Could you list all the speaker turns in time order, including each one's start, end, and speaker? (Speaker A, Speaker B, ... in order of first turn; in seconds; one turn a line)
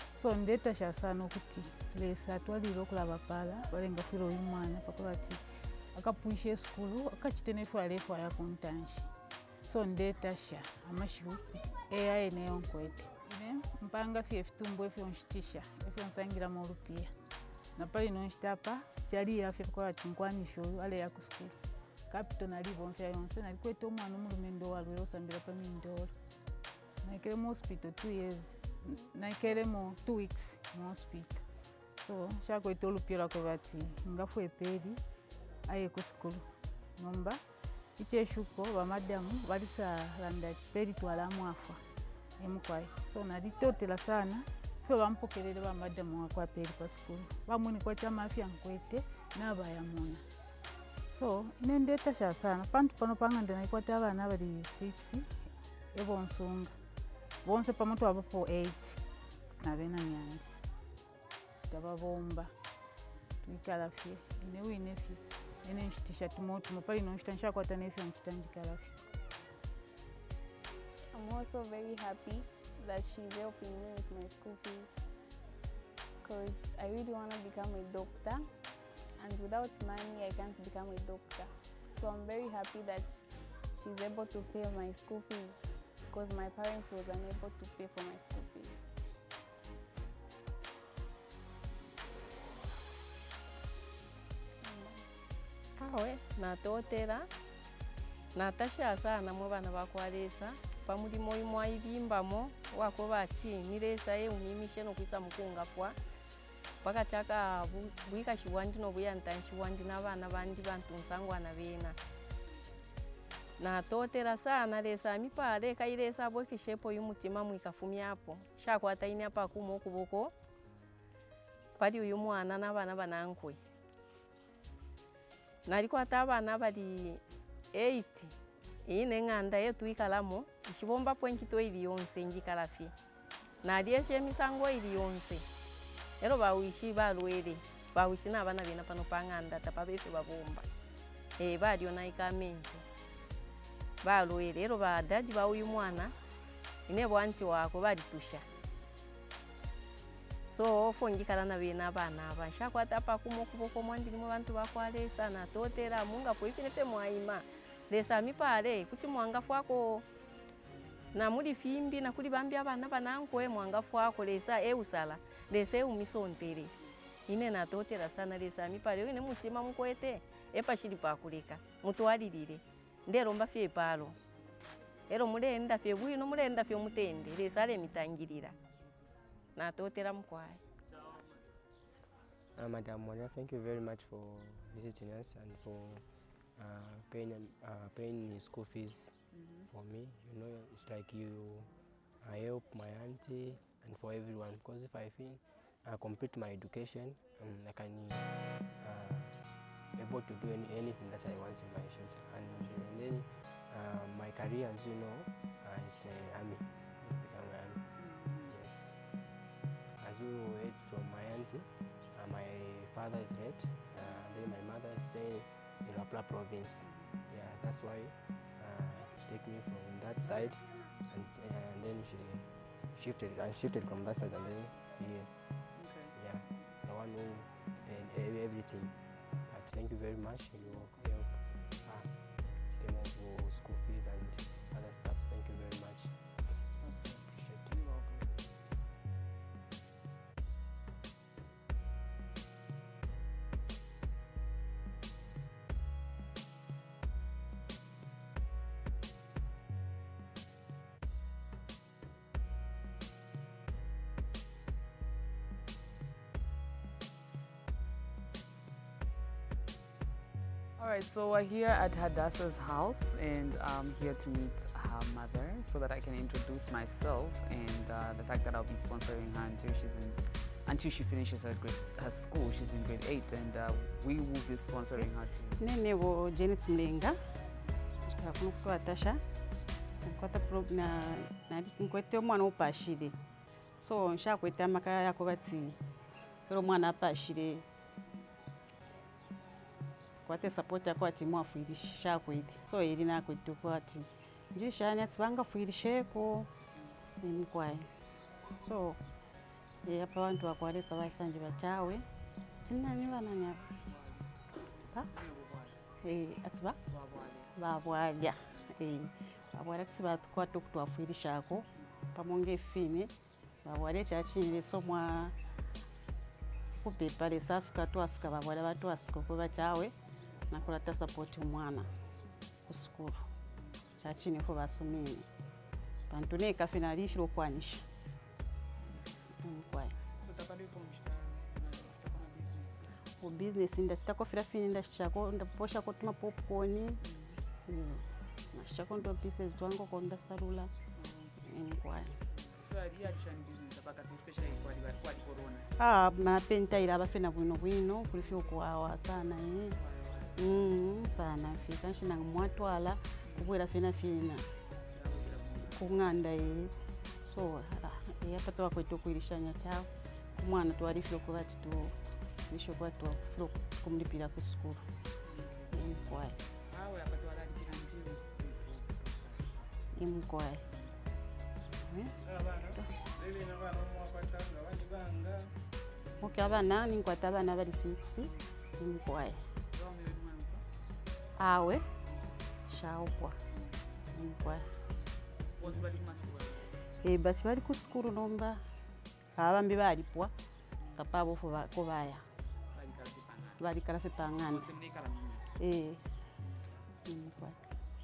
Speaker A: 0.2-5.4
Speaker A: 6.0-9.1
Speaker A: 9.7-17.1
Speaker A: 17.8-21.5
Speaker A: 22.1-26.1
Speaker A: 27.0-31.4
Speaker A: 32.0-35.0
Speaker A: 35.7-36.5
Speaker A: 37.0-37.4
Speaker A: 38.0-41.8
Speaker A: 42.4-50.2
Speaker A: 51.1-55.3
Speaker A: 55.9-56.7
Speaker A: 57.4-59.0
Speaker A: 59.6-60.5
Speaker A: 61.7-62.5
Speaker A: 63.4-69.0
Speaker B: 71.1-75.0
Speaker B: 76.2-78.5
Speaker B: 79.2-83.2
Speaker B: 83.8-88.9
Speaker B: 94.6-95.0
Speaker C: 95.8-97.3
Speaker C: 98.3-106.0
Speaker C: 106.8-112.0
Speaker C: 113.6-120.3
Speaker C: 121.8-123.6
Speaker C: 125.7-127.2
Speaker C: 127.7-128.3
Speaker C: 128.9-132.9
Speaker C: 133.6-135.4
Speaker C: 136.2-140.7
Speaker C: 141.4-142.8
Speaker C: 144.0-146.2
Speaker C: 146.9-148.4
Speaker C: 150.5-160.1
Speaker C: 161.1-166.7
Speaker C: 167.3-174.2
Speaker C: 175.1-178.6
Speaker C: 179.6-180.6
Speaker D: 182.6-186.1
Speaker D: 186.6-191.7
Speaker D: 192.2-198.3
Speaker D: 198.8-199.3
Speaker D: 200.0-207.9
Speaker D: 208.4-209.0
Speaker D: 210.0-225.3
Speaker E: 225.8-226.1
Speaker D: 226.1-228.9
Speaker D: 229.5-232.2
Speaker D: 232.7-236.6
Speaker D: 237.3-237.6
Speaker E: 260.8-275.6
Speaker F: 274.9-277.1
Speaker F: 278.1-279.2
Speaker F: 280.1-283.2
Speaker F: 283.8-285.8
Speaker F: 286.5-287.6
Speaker F: 290.2-296.5
Speaker F: 297.2-297.9
Speaker F: 298.6-299.0
Speaker F: 299.9-302.1
Speaker F: 302.6-303.7
Speaker F: 306.0-306.8
Speaker E: 307.0-307.3
Speaker F: 307.6-313.1
Speaker F: 313.6-315.3
Speaker F: 316.8-319.9
Speaker F: 320.5-321.9
Speaker F: 322.7-323.2
Speaker F: 324.0-325.3
Speaker F: 326.1-327.8
Speaker F: 329.4-329.9
Speaker F: 333.2-337.0
Speaker F: 337.7-338.0
Speaker F: 338.5-340.7
Speaker E: 341.0-341.3
Speaker F: 341.4-342.1
Speaker E: 342.6-345.7
Speaker F: 345.8-349.8
Speaker E: 349.9-350.6
Speaker F: 350.4-354.4
Speaker E: 355.2-355.8
Speaker F: 355.6-356.7
Speaker F: 357.2-361.9
Speaker F: 362.5-364.8
Speaker F: 365.7-366.4
Speaker E: 366.8-368.9
Speaker F: 369.9-370.6
Speaker F: 371.9-372.9
Speaker F: 376.2-379.4
Speaker F: 381.4-381.8
Speaker F: 382.7-383.4
Speaker F: 384.1-384.6
Speaker E: 385.6-386.5
Speaker F: 387.0-388.6
Speaker F: 389.4-390.3
Speaker F: 391.0-392.2
Speaker E: 392.8-393.6
Speaker F: 393.6-394.7
Speaker E: 394.4-395.3
Speaker F: 395.6-396.0
Speaker F: 397.1-397.6